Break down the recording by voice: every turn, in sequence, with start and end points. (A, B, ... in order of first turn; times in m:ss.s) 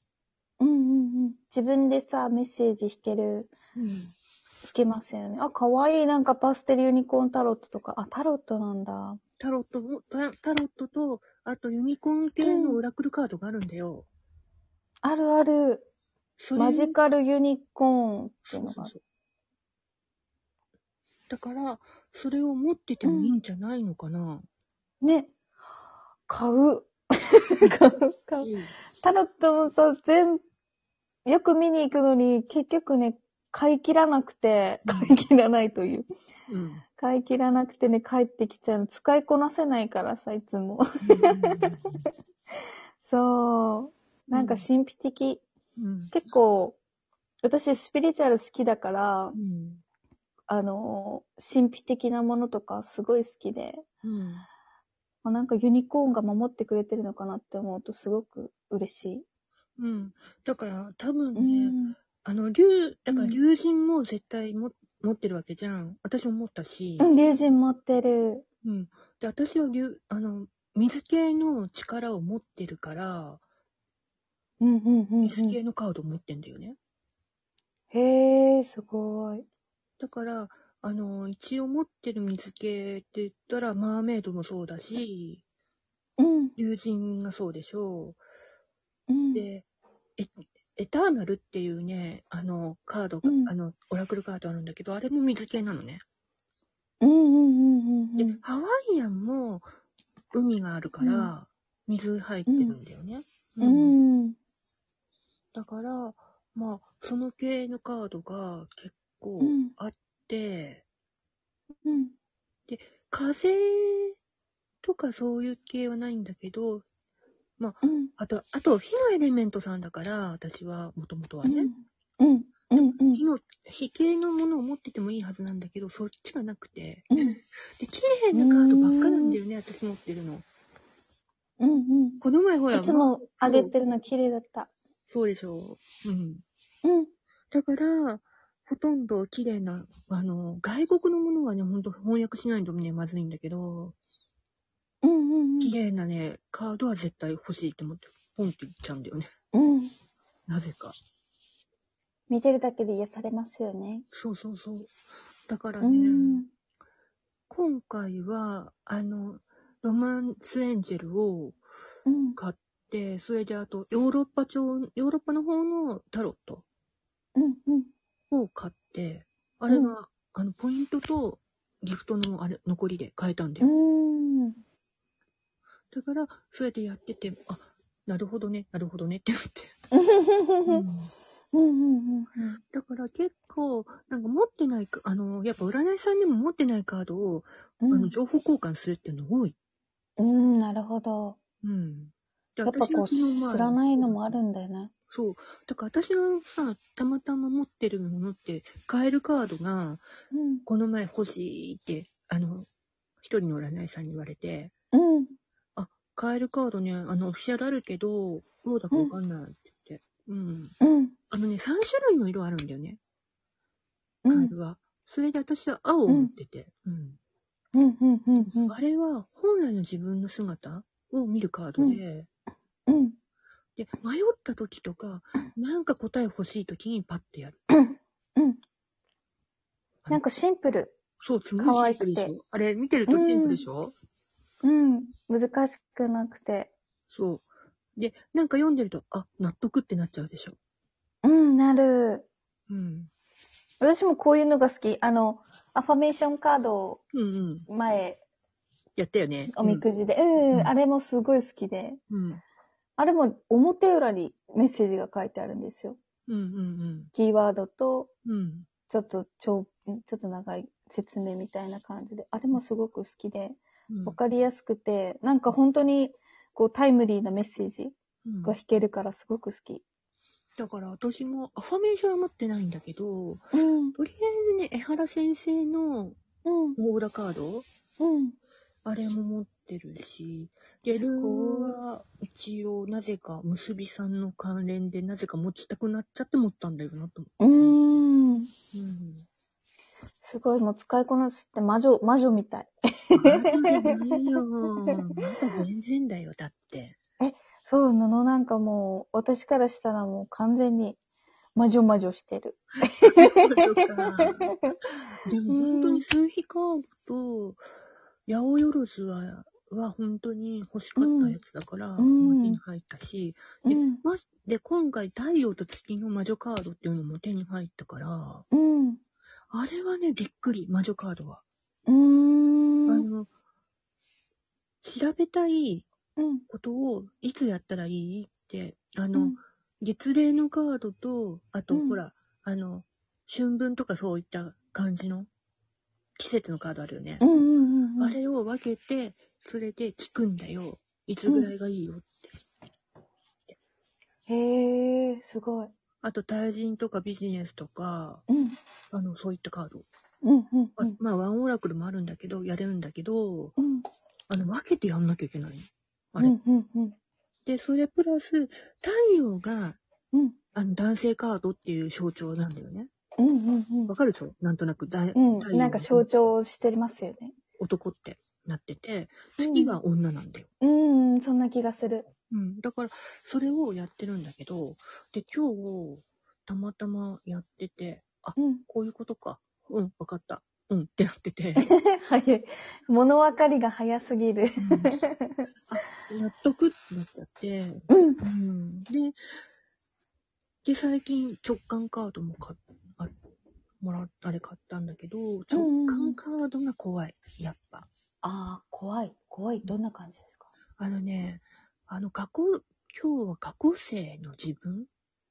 0:00.6-0:03.5 A
0:03.8-0:04.1 B
0:04.6-0:09.2 A
0:09.4-0:14.1 B
0:12.4-0:12.8 A
0:15.0-0:15.9 A
0:16.4-0:17.0 B
0:16.6-0:18.9 A
0:18.5-0:19.0 B
0:21.3-0:24.5 B
0:23.0-0:23.4 A
0:25.0-0:25.3 A
0:26.3-0:30.4 A
0:28.4-0:28.7 B
0:31.2-0:36.1 A
0:34.8-0:35.2 B
0:36.5-0:36.8 B
0:37.0-0:42.1 A
0:41.0-0:42.0 B
0:43.0-0:45.4 A
0:44.3-0:44.6 B
0:45.8-0:46.2 B
0:46.1-0:46.8 A
0:47.4-0:49.4 A
0:49.3-0:49.8 B
0:50.5-0:53.8 A
0:54.0-0:54.5 B
0:55.2-0:59.2 A
0:59.8-1:07.1 B
1:01.4-1:02.0 A
1:03.1-1:03.4 A
1:07.0-1:08.4 A
1:08.6-1:13.4 B
1:14.6-1:15.6 A
1:15.2-1:16.8 B
1:17.9-1:19.4 A
1:20.0-1:25.4 B
1:26.2-1:26.5 A
1:26.6-1:28.2 B
1:29.1-1:29.5 A
1:29.3-1:29.7 B
1:30.2-1:36.0 B
1:33.2-1:33.5 A
1:37.0-1:38.4 A
1:38.2-1:39.7 B
1:40.3-1:44.0 B
1:41.0-1:41.3 A
1:42.5-1:42.8 A
1:43.6-1:44.4 A
1:45.5-1:50.8 B
1:49.4-1:49.7 A
1:51.8-1:52.1 A
1:52.7-1:54.2 B
1:54.8-1:56.8 B
1:57.6-2:01.7 B
1:57.8-1:58.1 A
2:01.4-2:03.2 A
2:02.8-2:07.2 B
2:07.8-2:10.4 B
2:08.3-2:09.4 A
2:11.6-2:12.2 A
2:12.2-2:13.7 B
2:12.7-2:14.7 A
2:15.1-2:16.4 B
2:16.8-2:17.1 A
2:17.5-2:24.0 B
2:25.0-2:25.8 A
2:25.6-2:29.3 B
2:29.5-2:29.9 A
2:30.5-2:30.9 B
2:32.3-2:34.0 A
2:34.1-2:34.9 B
2:35.5-2:36.4 B
2:35.8-2:36.5 A
2:37.5-2:41.6 B
2:42.1-2:42.4 A
2:42.4-2:46.6 B
2:47.4-2:47.9 A
2:48.3-2:53.7 B
2:53.6-2:54.6 A
2:55.9-2:59.7 B
2:59.9-3:00.9 A
3:00.7-3:01.1 B
3:01.5-3:02.6 A
3:02.7-3:09.6 B
3:07.8-3:08.1 A
3:10.2-3:11.4 A
3:11.6-3:14.4 B
3:12.7-3:14.9 A
3:15.1-3:20.0 B
3:20.3-3:20.6 A
3:20.7-3:22.7 B
3:23.2-3:24.7 B
3:24.9-3:25.3 A
3:25.8-3:30.8 B
3:30.8-3:31.2 A
3:31.3-3:33.0 B
3:34.2-3:34.5 A
3:34.3-3:37.2 B
3:37.8-3:38.8 A
3:38.4-3:42.3 B
3:42.9-3:43.2 A
3:43.8-3:47.6 B
3:47.8-3:48.6 A
3:50.1-3:51.0 A
3:51.2-3:53.9 B
3:51.6-3:52.3 A
3:53.1-3:53.6 A
3:54.6-3:56.7 A
3:57.1-4:00.6 B
4:01.2-4:02.3 A
4:02.7-4:03.1 B
4:03.8-4:07.0 A
4:07.1-4:07.7 B
4:07.7-4:08.2 A
4:09.0-4:09.8 B
4:09.5-4:12.0 A
4:12.1-4:12.4 B
4:13.0-4:16.0 A
4:16.3-4:17.1 B
4:17.1-4:18.1 A
4:18.2-4:18.7 B
4:18.9-4:29.8 A
4:23.9-4:24.2 B
4:28.2-4:28.6 B
4:30.6-4:36.2 B
4:33.5-4:34.0 A
4:36.4-4:36.8 A
4:36.8-4:37.7 B
4:38.0-4:38.4 A
4:38.8-4:47.8 B
4:41.0-4:41.8 A
4:47.4-4:48.5 A
4:48.7-4:49.3 B
4:50.2-4:54.3 A
4:53.1-4:57.0 B
4:57.2-5:01.0 A
5:01.6-5:04.8 A
5:03.1-5:04.6 B
5:05.2-5:07.6 B
5:05.5-5:06.0 A
5:08.3-5:18.5 B
5:11.0-5:11.4 A
5:12.0-5:12.6 A
5:13.6-5:14.0 A
5:18.5-5:19.0 A
5:19.5-5:21.4 B
5:21.9-5:23.1 A
5:22.9-5:23.3 B
5:24.8-5:25.9 B
5:26.2-5:26.4 A
5:26.5-5:35.3 B
5:29.1-5:29.4 A
5:31.7-5:32.0 A
5:36.2-5:37.2 B
5:37.2-5:38.2 A
5:38.0-5:42.2 B
5:44.3-5:45.7 A
5:46.0-5:48.2 B
5:48.3-5:48.6 A
5:48.9-5:49.9 B
5:50.2-5:51.0 A
5:50.8-5:53.6 B
5:53.6-5:53.8 A
5:54.3-5:56.4 B
5:56.2-5:57.0 A
5:57.5-5:59.8 B
6:00.1-6:00.4 A
6:00.6-6:02.9 B
6:03.2-6:03.9 A
6:03.9-6:06.0 B
6:05.2-6:07.3 A
6:07.6-6:10.5 B
6:09.4-6:09.8 A
6:10.6-6:12.1 A
6:12.3-6:21.7 B
6:18.4-6:18.6 A
6:21.6-6:25.5 A
6:24.6-6:25.0 B
6:25.7-6:29.2 B
6:27.9-6:28.2 A
6:30.6-6:33.1 B
6:33.8-6:37.9 B
6:35.5-6:36.2 A
6:38.2-6:40.5 A
6:40.8-6:44.9 B